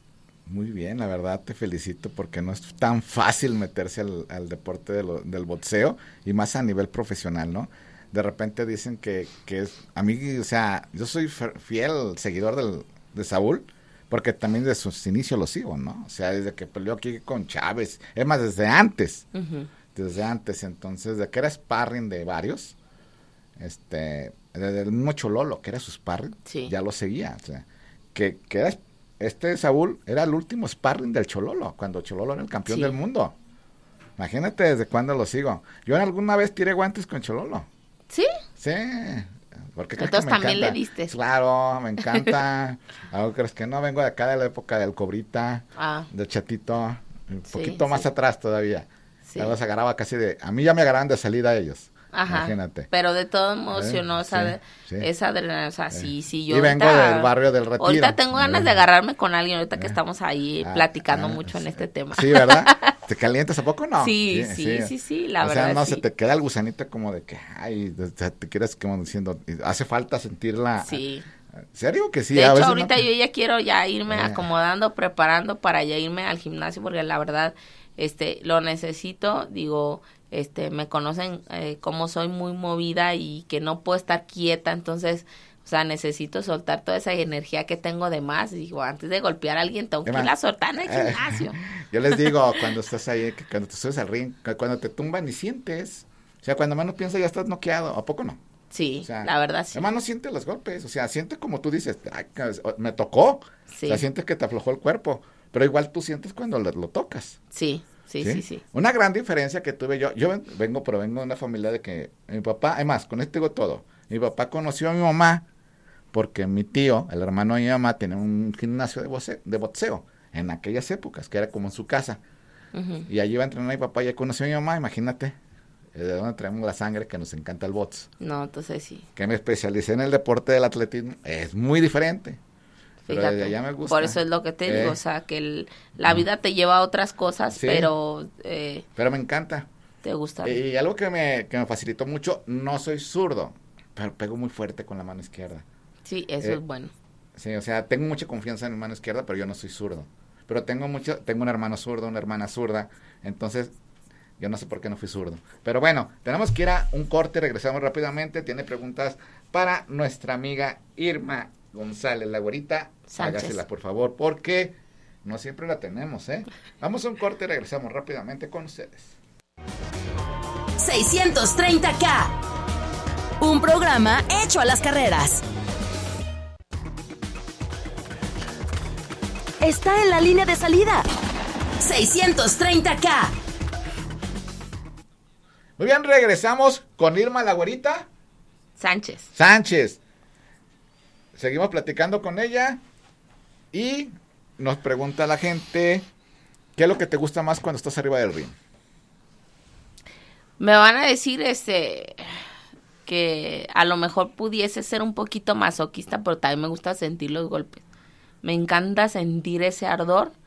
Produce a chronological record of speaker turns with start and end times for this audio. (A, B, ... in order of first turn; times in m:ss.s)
0:00.5-0:19.2 A
0:19.3-0:19.7 B
0:19.9-0:22.7 A
0:23.6-0:33.3 A
0:26.4-0:26.7 B
0:32.7-0:32.9 B
0:34.2-0:37.7 A
0:38.6-0:52.9 A
0:40.0-0:41.1 B
0:45.8-0:46.1 B
0:47.5-0:48.0 B
0:49.2-0:49.6 B
0:52.1-1:02.9 B
0:53.7-0:55.1 A
0:55.9-0:58.8 A
1:00.6-1:11.0 A
1:04.0-1:06.0 B
1:10.8-1:11.2 B
1:11.7-1:13.0 A
1:12.3-1:31.6 B
1:14.1-1:14.5 A
1:30.0-1:38.4 A
1:38.7-1:39.9 B
1:39.0-1:47.4 A
1:43.7-1:44.0 B
1:47.5-1:48.6 B
1:48.2-1:55.4 A
1:56.1-2:02.2 A
2:02.7-2:03.1 B
2:03.1-2:05.4 A
2:05.9-2:08.1 A
2:08.2-2:09.1 B
2:09.2-2:12.4 A
2:13.0-2:18.8 B
2:13.1-2:15.0 A
2:17.5-2:17.9 A
2:19.0-2:19.7 A
2:20.0-2:20.6 B
2:20.4-2:25.6 A
2:26.0-2:26.9 B
2:27.4-2:33.7 A
2:34.4-2:49.1 A
2:43.1-2:43.6 B
2:50.8-2:52.3 C
2:53.4-2:55.4 C
2:59.6-3:01.0 C
3:01.8-3:03.3 C
3:05.8-3:08.1 A
3:08.8-3:09.3 B
3:09.4-3:10.0 A
3:11.4-3:12.8 A
3:13.7-3:16.0 A
3:16.8-3:18.5 A
3:20.6-3:22.4 B
3:23.0-3:27.8 B
3:28.4-3:30.3 B